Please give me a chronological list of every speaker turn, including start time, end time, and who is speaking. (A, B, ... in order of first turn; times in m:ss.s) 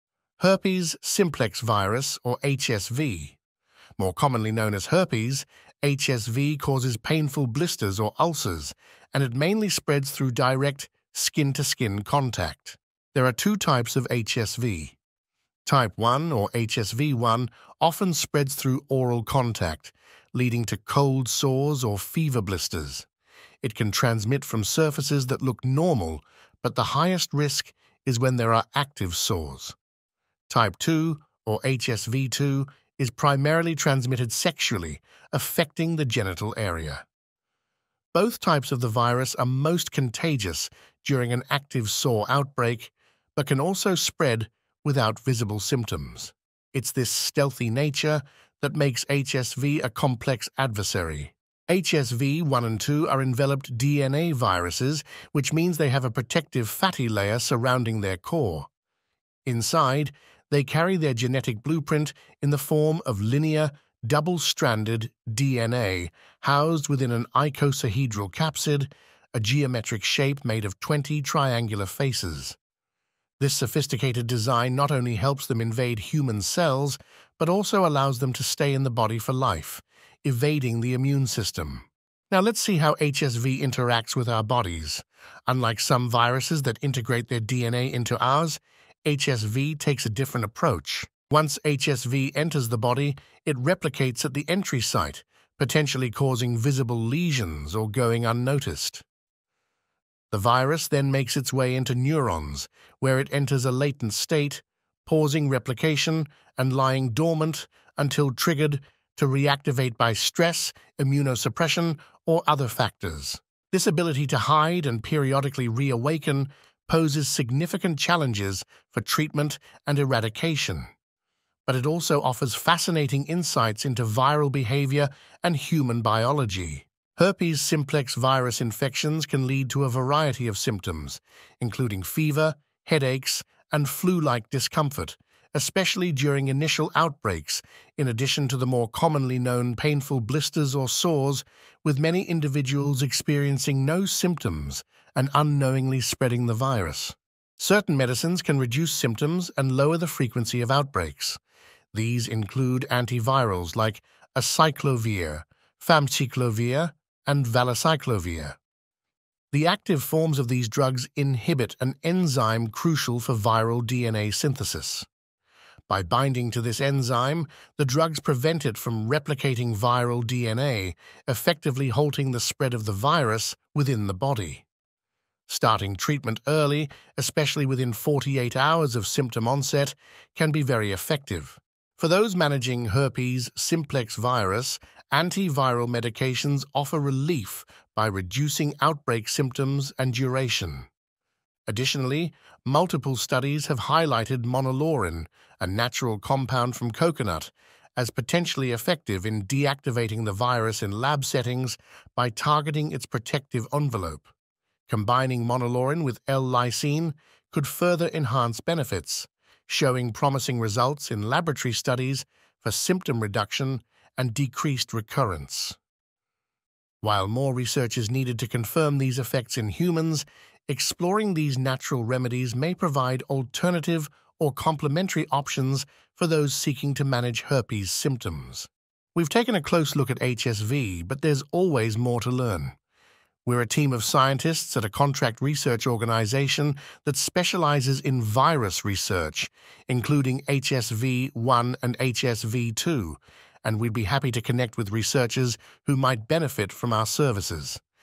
0:00.4-0:03.4 A
0:04.0-0:15.0 A
0:15.6-0:23.1 A
0:23.6-0:29.8 A
0:30.5-0:37.0 A
0:38.1-0:58.7 A
0:59.5-1:12.6 A
1:13.4-1:39.0 A
1:40.3-2:00.9 A
2:01.7-2:31.4 A
2:31.9-2:38.6 A
2:39.5-2:45.1 A
2:45.9-2:54.7 A
2:55.5-3:10.9 A
3:11.7-3:24.3 A
3:24.9-3:35.8 A
3:37.0-3:52.8 A
3:53.4-4:07.8 A